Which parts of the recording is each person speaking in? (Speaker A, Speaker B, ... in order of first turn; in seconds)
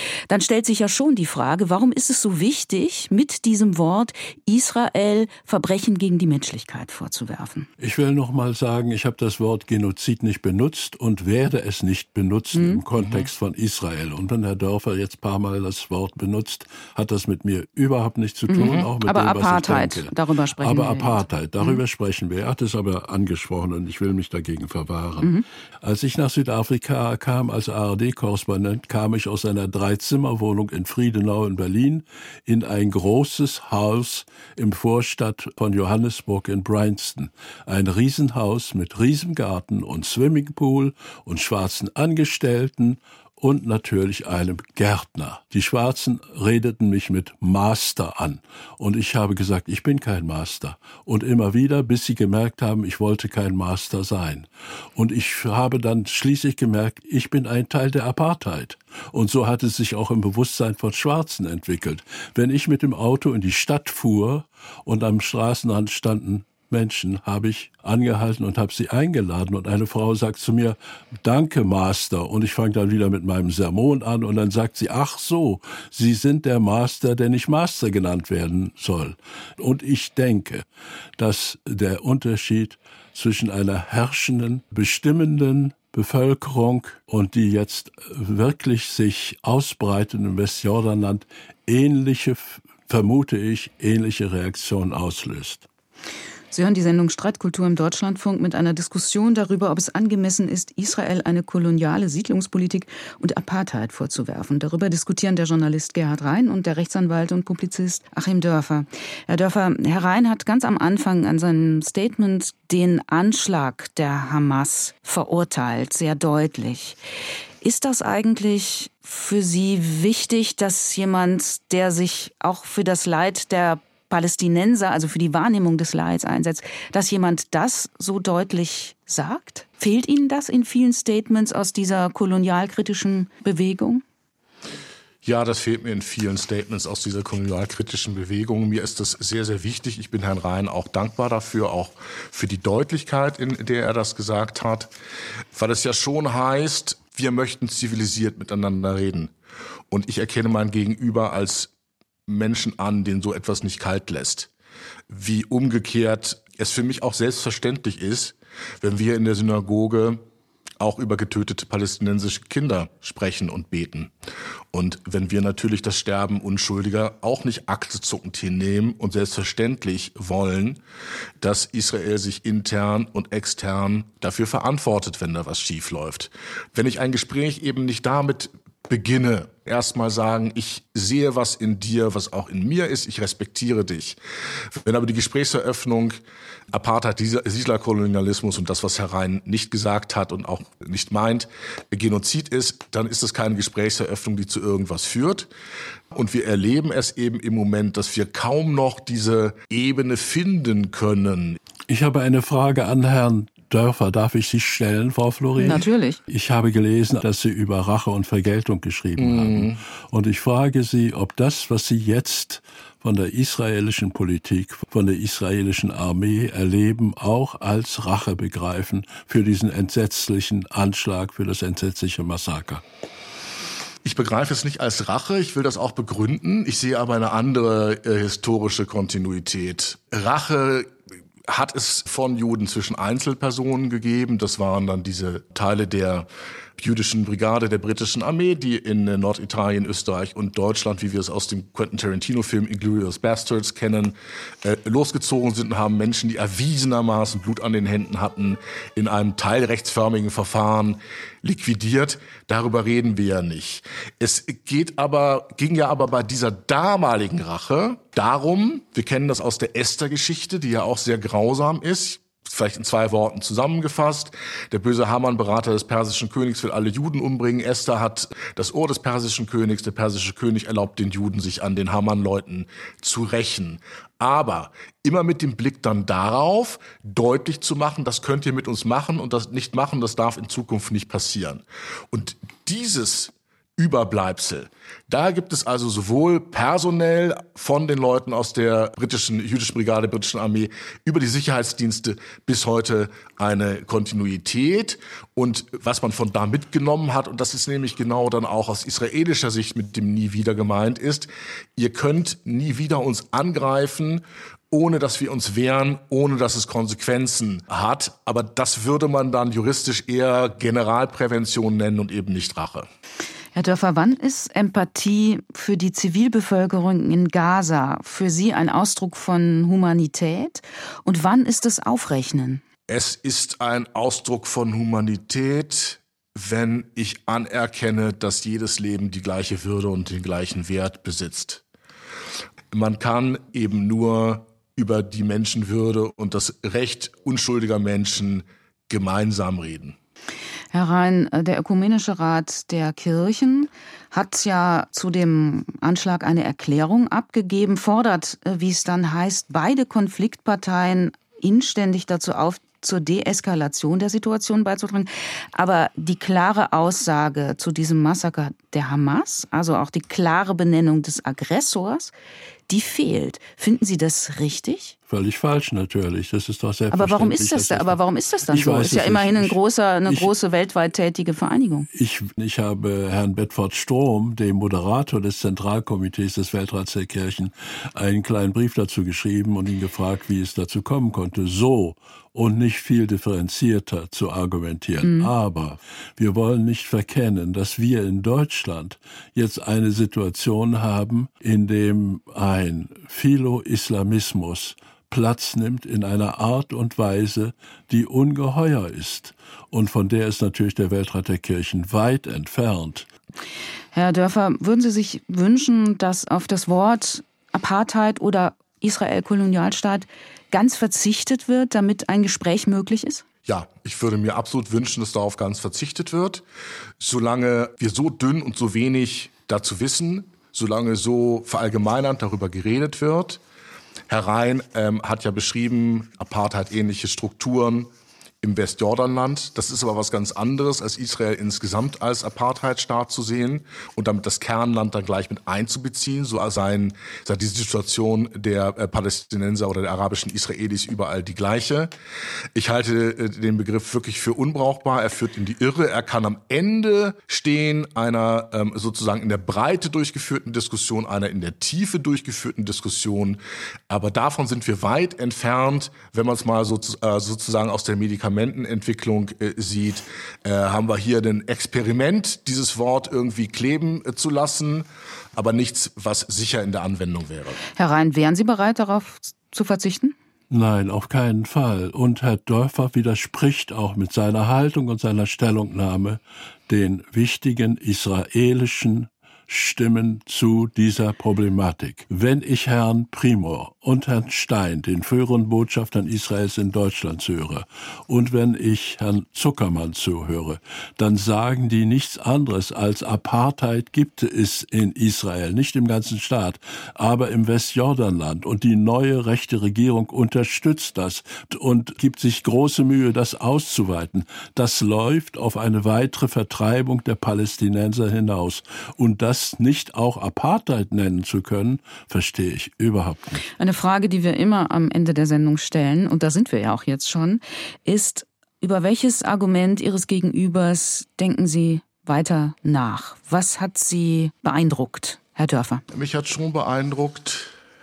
Speaker A: 0.3-7.7, 12.5-12.8, 18.5-21.8, 96.5-117.0, 117.6-134.0, 205.6-206.2, 313.6-322.6, 340.7-362.1, 362.7-365.0, 366.9-371.9, 385.0-385.3, 403.9-413.2, 467.8-470.1, 513.6-525.8
Speaker B: 7.8-80.6, 81.2-95.7, 201.9-222.8, 365.1-370.3, 371.9-403.1, 470.5-513.4
Speaker C: 13.0-13.3, 18.6-18.9, 135.2-144.9, 145.5-149.3, 149.9-151.7, 152.3-154.5, 155.1-160.2, 160.8-164.1, 164.7-170.8, 171.4-184.2, 184.7-186.2, 186.7-195.5, 196.1-201.6, 209.2-209.8, 224.0-230.9, 231.5-312.9, 322.9-331.6, 332.7-340.0, 413.5-416.4, 417.0-423.4, 424.1-427.9, 428.4-441.9, 442.6-467.6, 525.9-527.5